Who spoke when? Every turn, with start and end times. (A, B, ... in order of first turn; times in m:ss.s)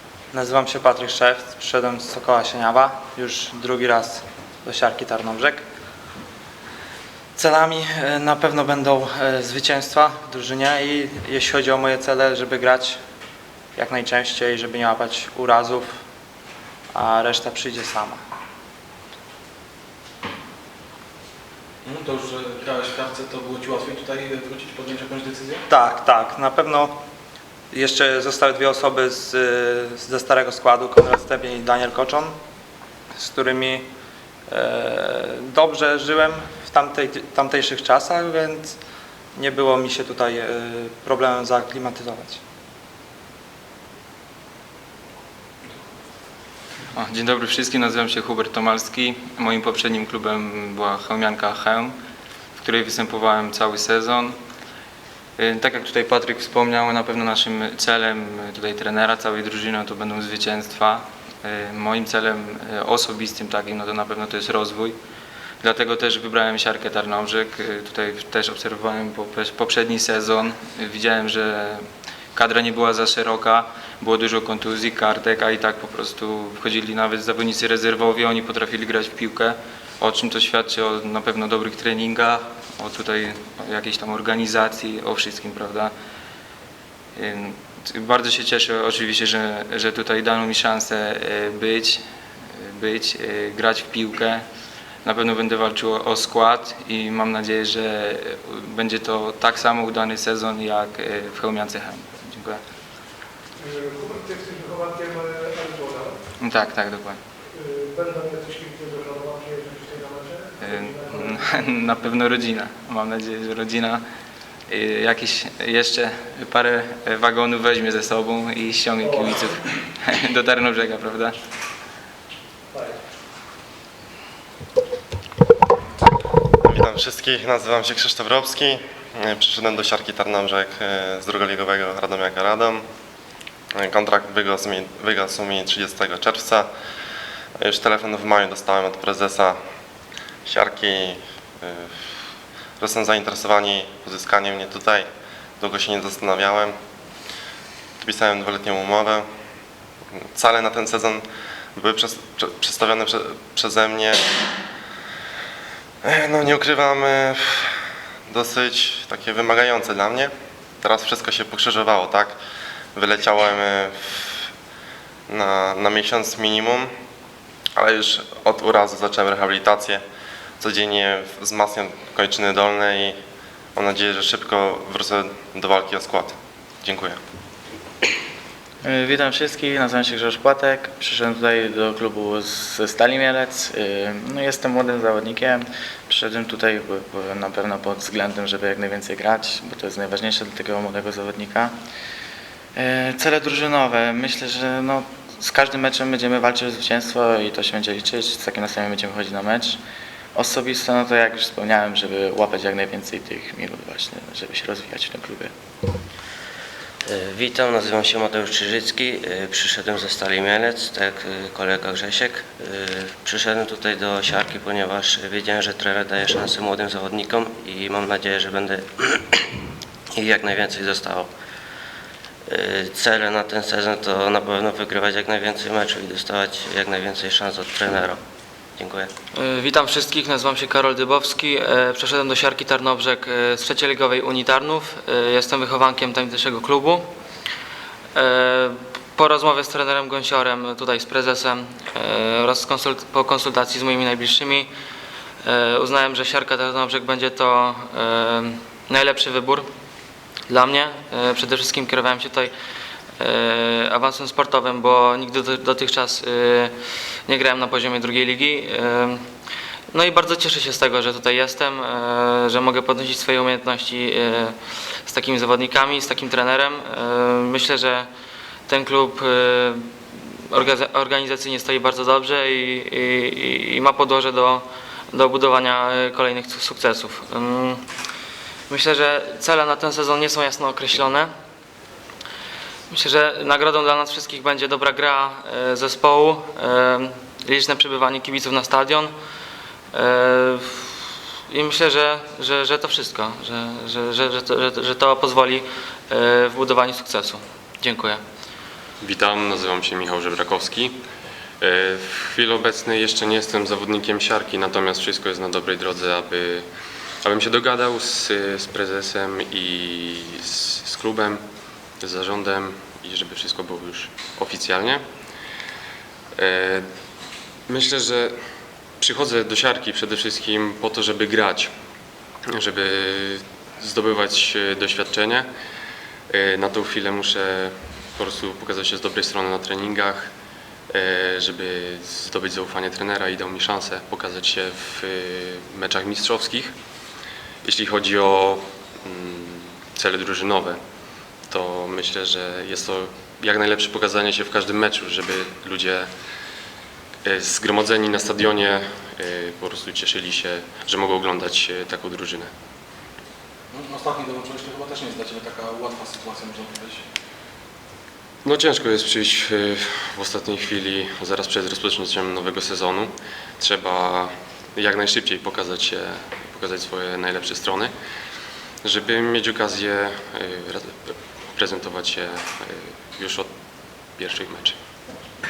0:00.3-0:05.6 A
0:07.4-0:13.0 A
0:13.7-0:16.0 A
0:16.9-0:18.2 A
0:21.8-0:25.6 B
0:25.7-0:27.0 A
0:27.7-0:32.4 A
0:33.2-0:33.9 A
0:34.5-0:38.8 A
0:39.3-0:42.4 A
0:46.9-0:51.9 C
0:52.6-0:54.4 C
0:55.4-1:05.0 C
1:05.6-1:25.9 C
1:27.2-1:32.0 C
1:32.5-1:34.4 C
1:35.0-1:42.6 C
1:43.6-1:46.2 D
1:46.4-1:47.2 C
1:47.5-1:51.7 D
1:50.6-1:54.0 C
1:54.7-2:01.4 C
1:59.0-1:59.6 D
2:02.7-2:03.0 D
2:06.6-2:12.8 E
2:13.7-2:16.7 E
2:17.6-2:19.6 E
2:20.4-2:21.9 E
2:22.8-2:25.1 E
2:25.6-2:26.8 E
2:28.0-2:29.3 E
2:30.1-2:31.2 E
2:31.7-2:34.4 E
2:36.0-2:37.7 E
2:38.3-2:42.4 E
2:42.9-2:44.5 E
2:45.3-2:46.9 E
2:47.8-2:50.0 E
2:50.6-2:53.2 E
2:53.7-2:57.2 E
2:58.8-3:11.8 F
3:12.8-3:19.8 F
3:20.3-3:25.5 F
3:27.0-3:39.5 G
3:40.1-3:41.3 G
3:42.5-3:48.2 G
3:48.8-3:49.1 G
3:49.3-3:57.1 H
3:58.1-4:04.7 H
4:05.4-4:09.7 H
4:10.5-4:12.5 H
4:13.2-4:19.2 H
4:19.9-4:28.1 H
4:28.7-4:37.8 H
4:38.7-4:41.3 H
4:42.9-4:49.1 H
4:49.9-4:58.2 H
4:59.0-5:01.0 I
5:01.6-5:11.4 I
5:12.0-5:15.1 I
5:16.3-5:16.9 I
5:17.6-5:18.4 I
5:19.0-5:21.7 I
5:22.4-5:25.5 I
5:26.3-5:30.3 I
5:30.9-5:36.8 I
5:37.6-5:40.8 I
5:41.4-5:46.2 I
5:47.2-5:52.5 I
5:53.7-5:57.0 B
5:58.4-6:08.0 I
6:08.8-6:13.5 I
6:14.1-6:14.8 I